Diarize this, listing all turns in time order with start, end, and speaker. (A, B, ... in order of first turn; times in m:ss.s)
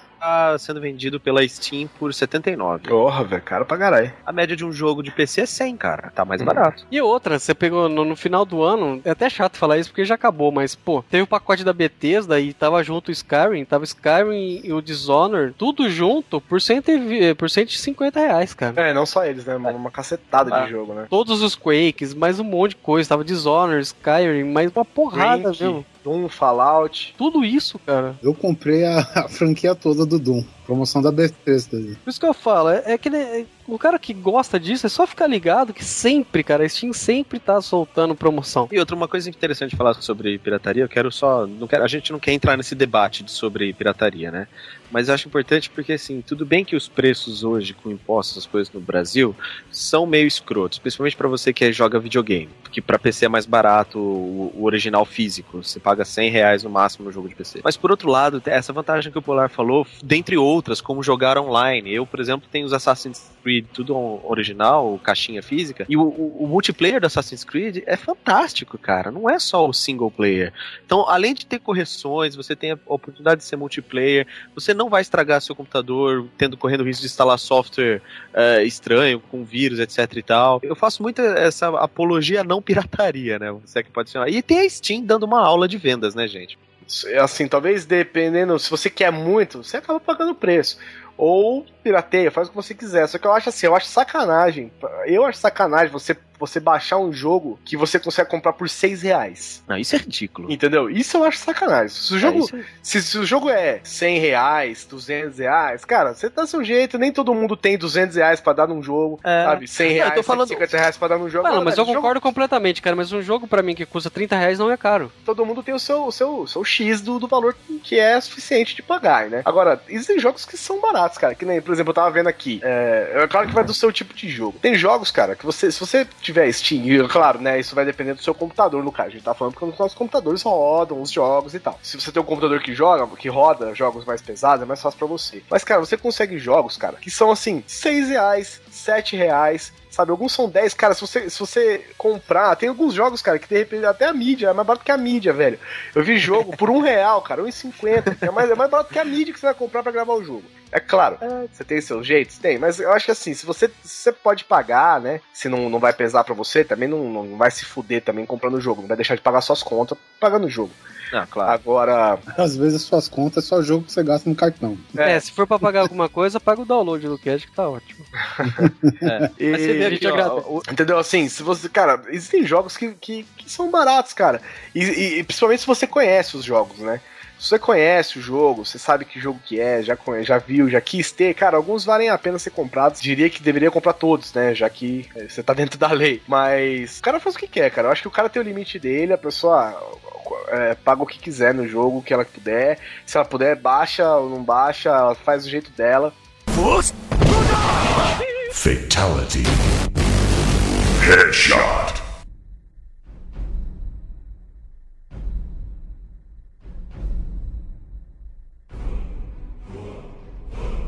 0:00.2-0:02.9 A
0:02.9-0:04.1 B
0:04.3-0:06.8 A
0:06.4-0:06.6 B
0:06.9-0:18.8 C
0:18.8-0:21.1 B
0:21.1-0:25.8 C
0:25.1-0:27.1 B
0:27.2-0:28.2 C
0:28.2-0:32.0 D
0:32.0-0:38.7 C
0:38.7-1:26.6 A
1:26.9-1:39.6 B
1:39.7-1:40.5 A
1:40.5-1:52.1 B
1:42.2-1:42.6 A
1:49.2-1:50.7 A
1:51.4-1:55.1 C
1:55.2-2:40.8 B
2:41.1-2:41.6 A
2:41.4-2:42.2 B
2:42.3-2:45.0 D
2:45.0-2:45.2 B
2:45.0-2:48.1 C
2:48.4-2:48.7 B
2:48.6-2:49.2 D
2:49.0-2:50.6 A
2:49.4-2:50.1 B
2:49.8-2:50.4 C
2:50.7-3:16.1 B
3:16.5-3:22.0 E